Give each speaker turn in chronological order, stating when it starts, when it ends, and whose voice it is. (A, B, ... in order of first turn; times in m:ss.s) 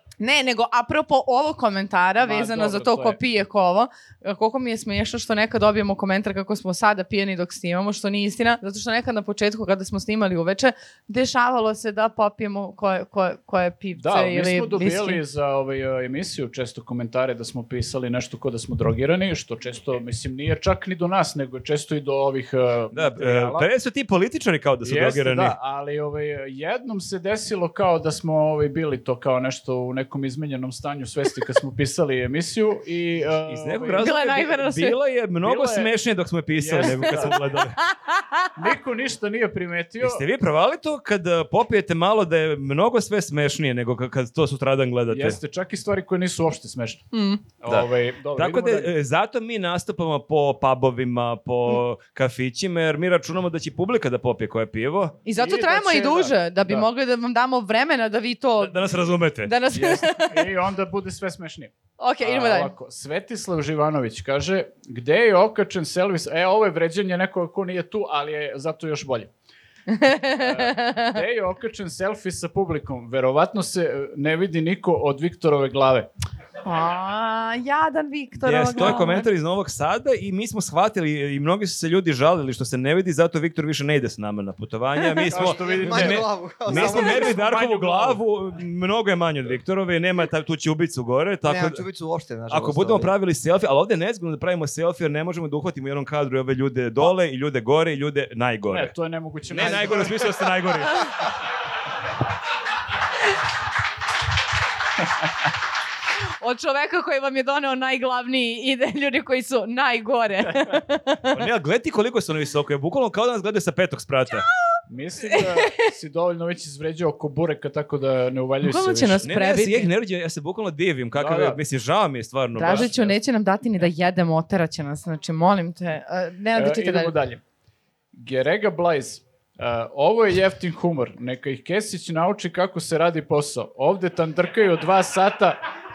0:00.2-0:15.2 A
0:02.2-0:03.2 B
0:14.0-0:23.7 B
0:22.9-0:25.6 C
0:24.8-0:34.1 B
0:33.5-0:37.8 C
0:34.0-0:35.0 A
0:35.4-0:35.9 B
0:36.5-0:37.4 B
0:37.8-0:38.5 A
0:38.6-0:40.2 B
0:40.0-0:45.4 C
0:45.1-0:47.1 B
0:47.1-0:47.4 A
0:47.6-0:48.9 B
0:47.7-0:55.2 C
0:55.2-1:00.5 A
0:55.3-0:56.9 B
0:58.6-0:59.6 C
0:59.7-1:09.3 B
1:02.0-1:02.7 A
1:09.9-1:11.2 A
1:10.3-1:16.1 B
1:16.6-1:19.3 A
1:18.4-1:31.8 C
1:25.3-1:28.2 B
1:25.3-1:27.4 D
1:31.4-1:33.1 D
1:32.5-1:38.9 C
1:38.7-1:40.5 B
1:39.5-1:41.2 C
1:39.6-1:40.3 D
1:46.4-1:51.4 A
1:51.3-1:54.5 C
1:54.4-1:55.8 A
1:54.9-1:59.2 B
1:58.6-1:59.9 A
1:59.2-2:03.1 C
2:01.1-2:01.6 B
2:02.6-2:07.1 A
2:02.6-2:03.0 B
2:06.5-2:07.4 B
2:08.1-2:15.6 B